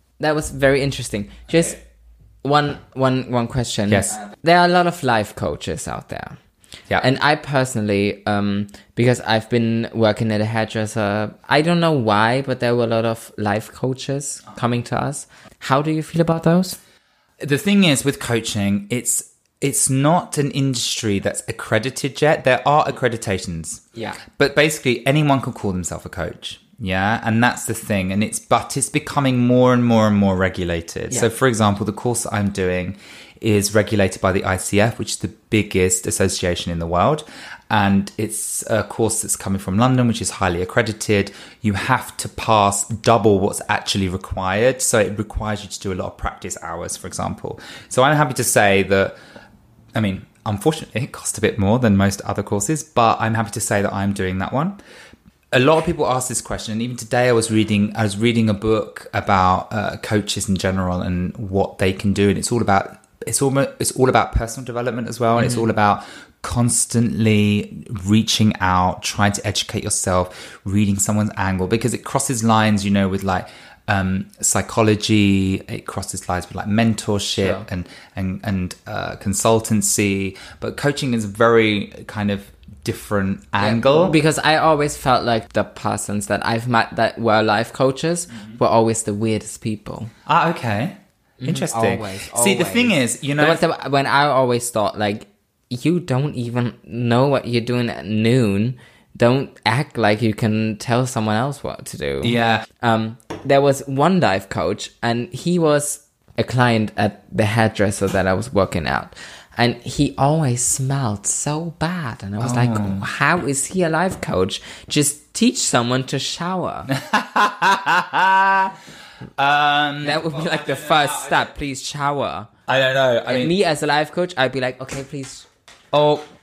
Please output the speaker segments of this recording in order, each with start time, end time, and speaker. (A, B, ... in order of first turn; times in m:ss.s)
0:00.2-0:01.8 A
0:02.4-0:06.4 A
0:03.9-0:04.2 B
0:07.0-0:16.8 A
0:17.4-0:49.2 B
0:49.9-0:54.8 B
0:55.5-1:24.2 B
1:05.4-1:05.6 A
1:17.4-1:17.6 A
1:23.6-1:30.1 A
1:30.3-1:33.6 B
1:31.4-1:56.9 A
1:42.2-1:42.6 B
1:52.4-1:53.0 B
1:56.9-1:58.8 B
1:59.4-2:01.5 B
2:00.0-2:02.5 A
2:02.7-2:03.5 B
2:03.3-2:05.5 A
2:05.9-2:06.2 B